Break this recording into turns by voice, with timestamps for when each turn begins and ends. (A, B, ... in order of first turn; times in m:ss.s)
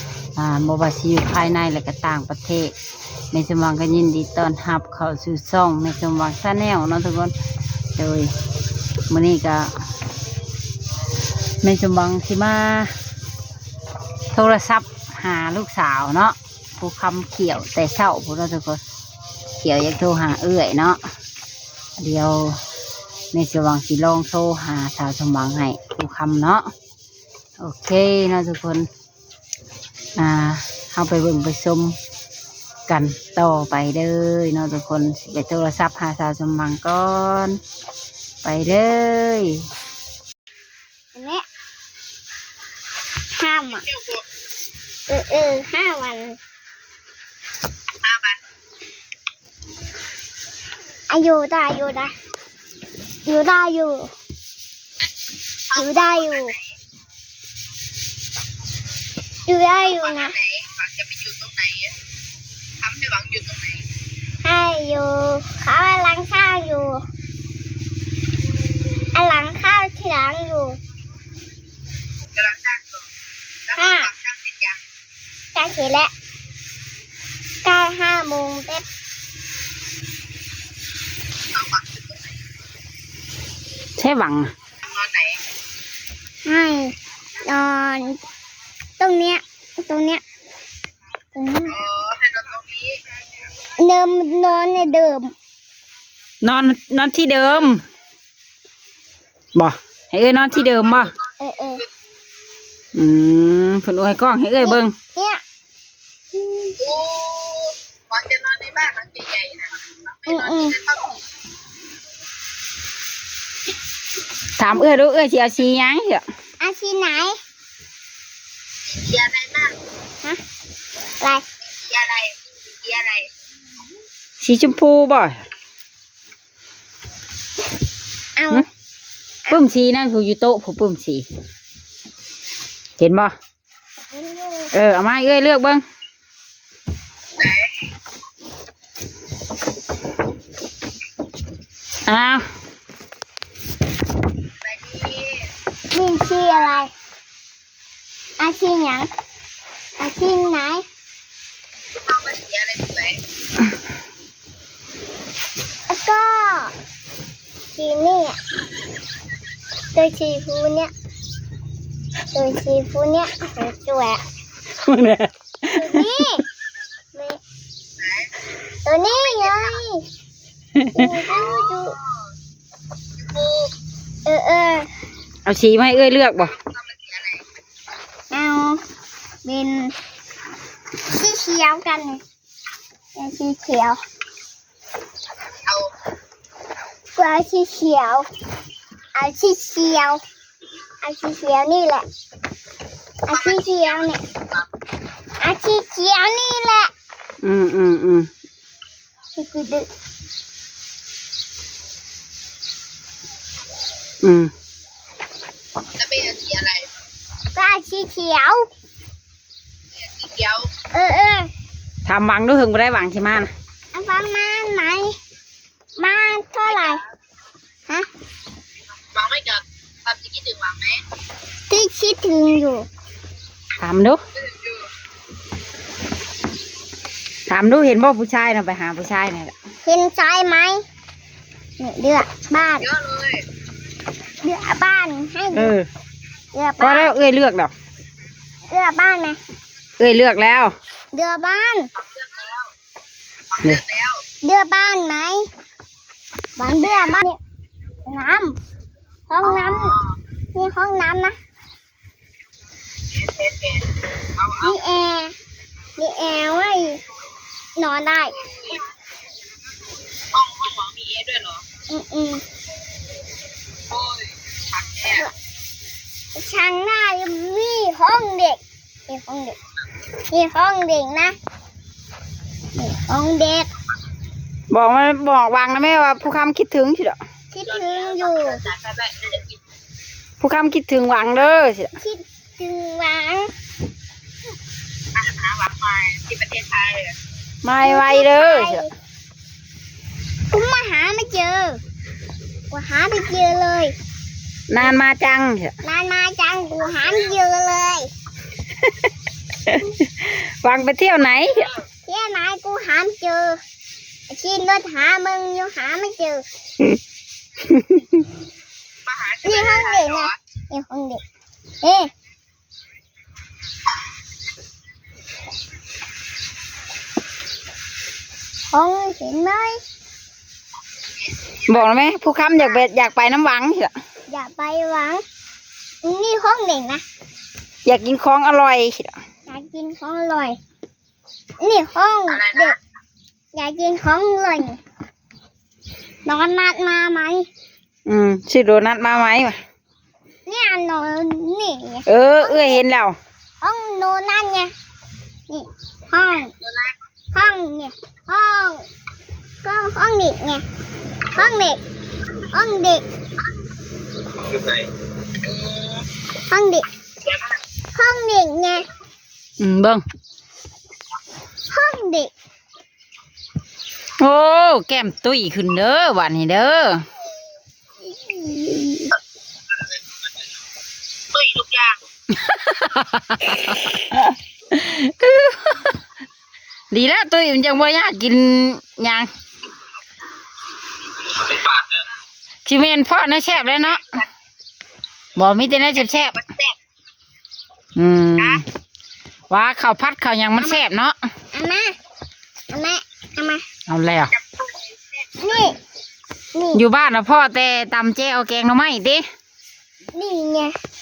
0:00.4-0:02.7 A
0:03.3-0:07.3 A
0:07.9-0:08.3 A
0:09.1-0:09.7 A
0:11.6-0:12.9 A
0:14.3-0:18.8 A
0:19.6-0:21.0 A
0:22.0-0:22.6 A
0:23.3-0:26.7 A
0:27.6-0:28.9 A
0:30.2-0:32.0 A
0:32.9-0:37.6 A
0:38.4-0:39.6 A
0:41.1-0:41.4 B
0:43.3-0:43.8 B
0:43.9-0:44.2 C
0:45.1-0:46.4 B
0:48.0-0:48.4 C
0:51.1-0:52.1 B
0:53.2-0:54.1 B
0:55.7-0:56.6 C
0:55.7-0:56.5 B
0:59.5-1:00.3 B
0:59.8-1:01.9 C
1:02.8-1:03.8 C
1:04.4-1:07.0 B
1:09.1-1:10.8 B
1:12.3-1:13.0 C
1:13.7-1:14.8 C
1:13.8-1:14.1 B
1:15.5-1:16.1 B
1:17.6-1:18.8 B
1:21.5-1:22.3 C
1:24.0-1:24.5 A
1:24.8-1:25.4 C
1:26.4-1:28.2 B
1:29.0-1:30.2 B
1:31.3-1:31.8 B
1:31.7-1:33.0 C
1:33.8-1:35.3 B
1:36.4-1:37.8 A
1:39.5-1:41.1 A
1:40.6-1:41.3 C
1:41.4-1:41.8 B
1:42.9-1:44.9 A
1:44.6-1:45.4 B
1:46.8-1:51.1 C
1:50.3-1:50.8 B
1:54.6-1:56.2 A
1:56.6-1:57.4 B
1:58.9-1:59.7 C
2:01.2-2:01.4 B
2:01.7-2:03.3 C
2:04.4-2:05.4 A
2:08.4-2:08.6 B
2:09.5-2:11.2 A
2:13.0-2:13.3 A
2:14.1-2:14.7 B
2:14.7-2:15.8 A
2:17.4-2:17.7 C
2:22.1-2:22.4 A
2:24.6-2:25.5 C
2:25.9-2:26.9 B
2:28.4-2:29.1 B
2:30.0-2:30.8 B
2:31.9-2:33.2 C
2:35.9-2:36.7 B
2:37.7-2:38.4 B
2:39.9-2:40.9 B
2:42.3-2:44.2 B
2:44.8-2:46.1 A
2:45.8-2:46.4 B
2:47.1-2:47.4 B
2:48.0-2:48.3 C
2:48.8-2:50.0 B
2:49.0-2:49.8 C
2:50.8-2:51.1 A
2:50.9-2:52.0 B
2:51.3-2:52.0 C
2:53.2-2:53.7 C
2:54.2-2:54.9 B
2:55.4-2:56.5 A
2:56.4-2:57.4 C
2:58.3-2:58.8 B
2:59.4-2:59.9 B
3:01.1-3:02.2 B
3:03.1-3:04.0 B
3:07.1-3:08.3 B
3:09.1-3:10.2 B
3:11.0-3:12.0 B
3:13.2-3:14.2 B
3:13.3-3:14.6 C
3:15.4-3:16.9 B
3:17.4-3:18.3 A
3:19.4-3:19.9 B
3:24.2-3:24.5 A
3:26.0-3:26.9 C
3:27.5-3:28.7 B
3:30.0-3:30.7 C
3:30.9-3:31.5 B
3:32.0-3:33.5 A
3:33.9-3:35.2 B
3:36.0-3:37.0 B
3:36.6-3:37.0 C
3:39.1-3:41.0 C
3:41.7-3:42.9 B
3:43.8-3:44.2 A
3:44.4-3:44.9 C
3:47.5-3:49.5 A
3:49.8-3:50.8 B
3:51.8-3:52.9 B
3:52.8-3:53.4 C
3:54.4-3:55.7 B
3:55.5-3:55.9 A
3:56.5-3:57.1 B
3:56.8-3:57.7 A
3:58.7-3:59.4 B
4:00.0-4:00.7 A
4:01.1-4:01.9 B
4:02.0-4:02.7 C
4:03.5-4:04.2 C
4:04.4-4:05.4 B
4:06.6-4:07.4 B
4:06.8-4:07.2 C
4:08.0-4:08.6 B
4:09.3-4:10.0 B
4:09.4-4:10.1 C
4:10.5-4:11.4 B
4:13.1-4:14.8 C
4:14.6-4:15.3 B
4:16.0-4:17.0 B
4:17.8-4:18.4 B
4:18.4-4:18.8 C
4:20.3-4:21.6 C
4:21.9-4:22.4 B
4:23.9-4:25.2 C
4:26.3-4:29.6 B
4:30.3-4:31.3 B
4:32.7-4:33.7 B
4:34.7-4:37.2 A
4:37.5-4:38.6 B
4:37.7-4:39.6 C
4:40.4-4:41.9 A
4:42.0-4:43.5 B
4:45.1-4:47.2 C
4:47.6-4:48.8 A
4:47.8-4:48.9 B
4:50.5-4:51.8 B
4:52.7-4:53.9 B
4:54.7-4:55.7 A
4:55.8-4:58.1 B
4:59.6-5:01.7 A
5:01.5-5:01.8 C
5:02.0-5:03.6 B
5:04.3-5:06.4 B
5:07.7-5:08.1 A
5:09.0-5:10.4 C
5:09.4-5:11.2 B
5:11.8-5:12.1 B
5:18.7-5:19.8 B
5:21.7-5:23.9 A
5:24.3-5:25.2 B
5:26.0-5:27.0 B
5:27.8-5:29.2 A
5:29.5-5:30.6 B
5:31.6-5:32.8 B
5:32.3-5:32.8 C
5:33.5-5:34.8 B
5:36.2-5:37.5 B
5:38.0-5:39.6 A
5:40.4-5:42.8 B
5:42.1-5:43.2 A
5:43.6-5:44.7 B
5:45.5-5:46.5 B
5:46.6-5:46.9 C
5:47.3-5:48.9 B
5:49.6-5:50.6 B
5:51.3-5:51.8 B
5:52.5-5:53.0 B
5:54.4-5:54.8 C
5:55.4-5:56.0 C
5:56.5-5:56.8 B
5:57.2-5:57.5 C
5:57.9-5:58.9 B
5:59.6-6:00.0 A
6:01.7-6:02.3 B
6:04.2-6:07.0 A
6:08.0-6:09.1 B
6:11.3-6:12.0 C
6:12.3-6:15.9 A
6:16.9-6:19.3 A
6:21.3-6:21.9 C
6:22.6-6:24.0 A
6:25.4-6:26.3 A
6:26.3-6:26.7 C
6:28.0-6:28.6 A
6:28.4-6:28.6 C
6:29.5-6:31.2 A
6:31.5-6:31.9 B
6:32.7-6:33.6 B
6:33.9-6:34.3 A
6:34.3-6:35.6 C
6:35.4-6:35.8 B
6:36.5-6:36.8 B
6:36.7-6:39.2 A
6:40.1-6:40.7 B